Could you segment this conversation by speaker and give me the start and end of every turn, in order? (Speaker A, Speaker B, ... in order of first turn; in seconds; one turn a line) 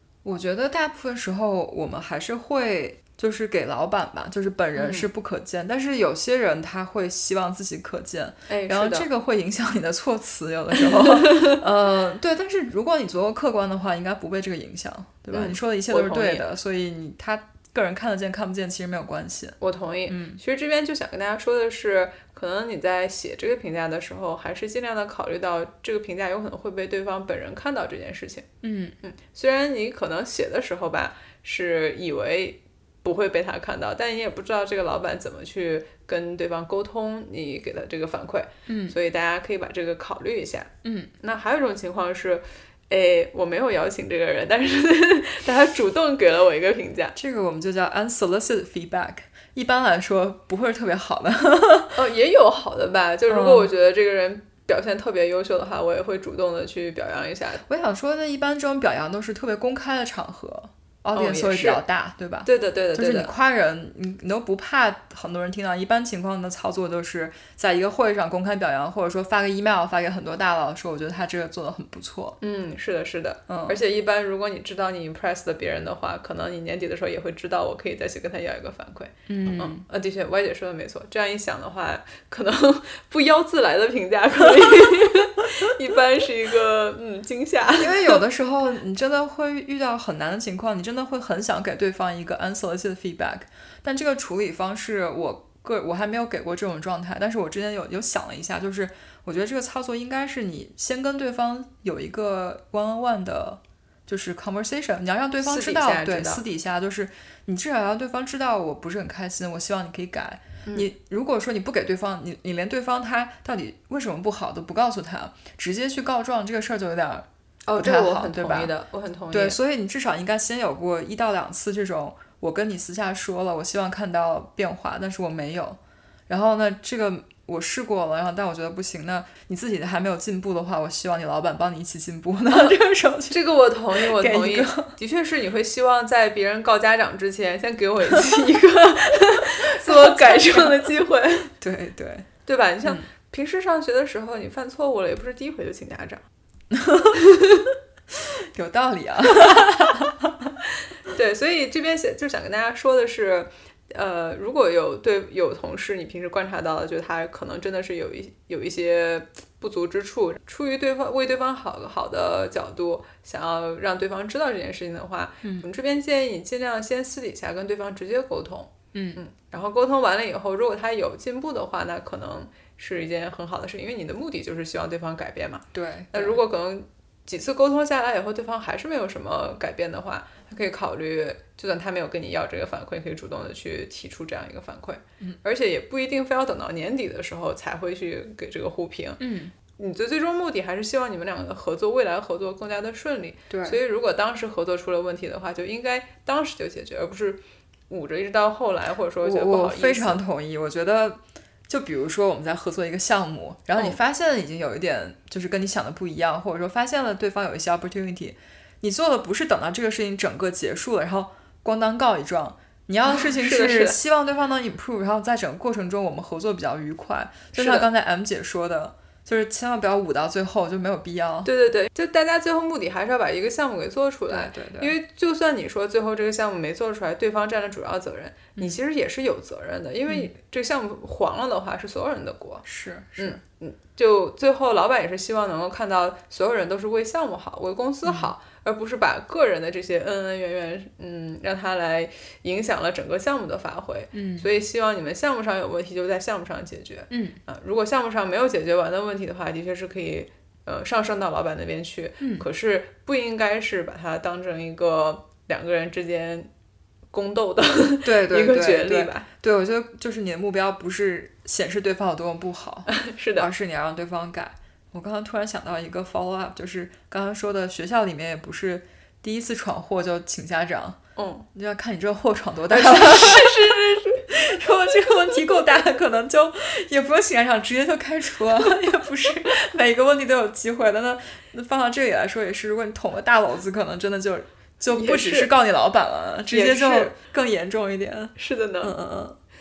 Speaker A: 0.2-19.6
Speaker B: 4.7-5.1
Speaker B: 8.5-9.1
Speaker B: 11.2-11.6
Speaker B: 15.3-16.4
Speaker B: 19.6-28.5
Speaker A: 20.1-20.4
Speaker A: 28.6-28.9
Speaker B: 29.0-47.1
Speaker A: 38.7-39.0
Speaker A: 40.8-41.1
Speaker A: 47.1-52.0
Speaker B: 51.9-57.6
Speaker A: 53.3-53.7
Speaker A: 57.7-72.4
Speaker B: 61.1-61.8
Speaker B: 62.4-63.3
Speaker B: 72.4-88.2
Speaker A: 73.5-73.8
Speaker A: 79.3-79.8
Speaker A: 87.8-118.7
Speaker B: 105.4-106.4
Speaker B: 117.7-119.6
Speaker A: 119.3-133.4
Speaker B: 133.3-141.5
Speaker A: 133.9-134.9
Speaker A: 139.7-140.9
Speaker A: 141.6-142.3
Speaker B: 142.4-146.2
Speaker A: 146.7-147.2
Speaker B: 147.2-147.6
Speaker A: 148.1-150.5
Speaker B: 151.1-189.2
Speaker A: 168.9-169.2
Speaker A: 175.7-176.4
Speaker A: 189.2-189.5
Speaker B: 189.7-200.2
Speaker A: 193.5-193.8
Speaker A: 199.2-221.5
Speaker B: 213.1-214.0
Speaker B: 217.5-217.9
Speaker B: 221.4-232.6
Speaker A: 224.3-224.9
Speaker A: 232.6-233.4
Speaker B: 233.2-256.5
Speaker A: 238.0-238.3
Speaker A: 244.1-244.5
Speaker A: 247.1-247.4
Speaker A: 252.2-252.4
Speaker B: 257.1-259.3
Speaker A: 258.0-271.0
Speaker B: 262.9-263.5
Speaker B: 271.2-271.4
Speaker A: 271.5-289.4
Speaker B: 272.7-274.3
Speaker B: 284.9-285.5
Speaker B: 286.5-287.1
Speaker B: 288.4-288.9